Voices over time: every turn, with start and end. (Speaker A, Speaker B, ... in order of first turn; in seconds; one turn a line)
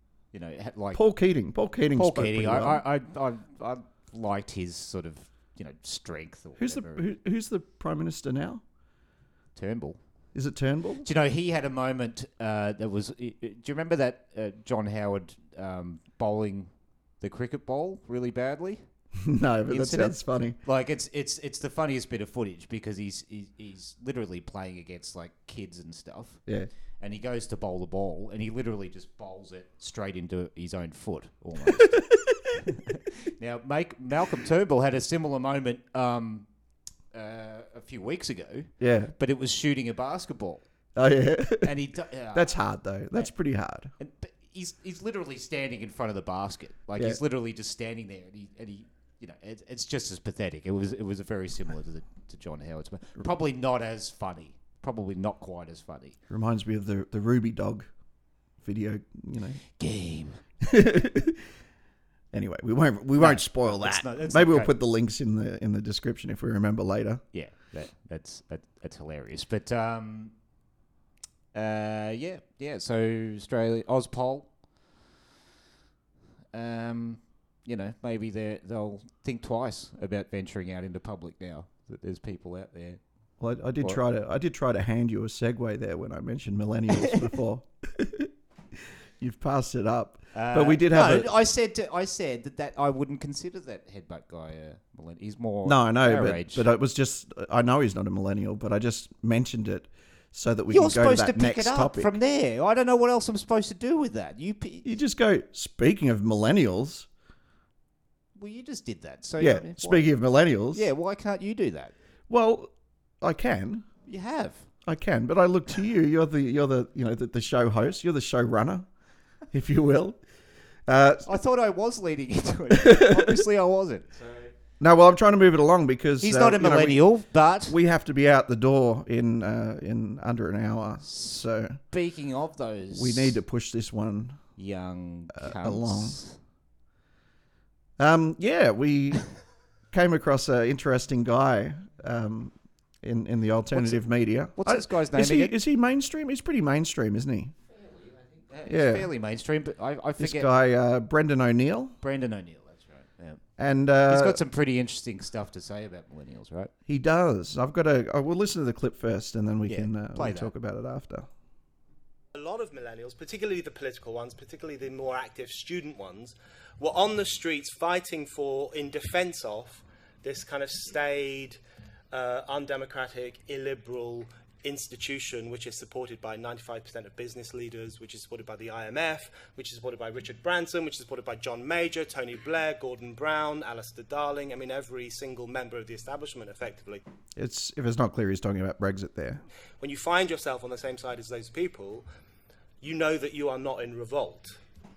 Speaker A: 0.3-1.0
Speaker B: 0.9-2.8
Speaker A: 1.9-7.1
Speaker B: 6.6-8.6
Speaker A: 9.5-10.0
Speaker B: 10.3-11.1
Speaker A: 11.0-18.8
Speaker B: 19.2-20.6
Speaker A: 19.7-26.4
Speaker A: 27.0-32.0
Speaker B: 31.6-32.5
Speaker A: 32.6-36.5
Speaker A: 37.1-40.6
Speaker B: 38.8-39.1
Speaker B: 41.0-41.8
Speaker A: 41.6-42.6
Speaker B: 42.3-43.9
Speaker A: 44.0-56.1
Speaker B: 56.3-57.9
Speaker B: 58.6-59.6
Speaker A: 59.8-60.4
Speaker B: 60.6-61.4
Speaker B: 62.3-67.2
Speaker A: 63.1-64.7
Speaker A: 67.3-70.3
Speaker A: 71.5-74.5
Speaker A: 76.5-83.0
Speaker B: 83.4-91.3
Speaker A: 87.0-87.3
Speaker A: 90.3-96.7
Speaker B: 95.6-102.1
Speaker A: 100.7-104.9
Speaker B: 104.8-107.1
Speaker A: 108.3-110.1
Speaker B: 109.4-110.9
Speaker A: 110.7-111.9
Speaker B: 112.3-113.9
Speaker A: 114.1-114.7
Speaker B: 114.8-118.9
Speaker B: 119.5-120.2
Speaker B: 120.9-121.3
Speaker A: 121.2-124.5
Speaker B: 122.7-123.4
Speaker B: 124.8-127.1
Speaker A: 126.2-127.8
Speaker B: 127.6-131.8
Speaker A: 131.0-133.4
Speaker B: 132.9-134.4
Speaker A: 134.6-136.4
Speaker B: 135.3-136.2
Speaker B: 138.0-139.3
Speaker B: 139.9-147.5
Speaker A: 143.7-145.6
Speaker A: 147.7-150.5
Speaker B: 148.7-149.1
Speaker B: 150.2-152.0
Speaker A: 152.0-153.4
Speaker B: 153.6-154.4
Speaker A: 154.1-156.7
Speaker B: 156.9-161.3
Speaker A: 159.7-160.5
Speaker C: 162.3-171.6
Speaker C: 172.1-187.0
Speaker B: 187.3-189.4
Speaker C: 189.8-192.1
Speaker C: 192.8-194.6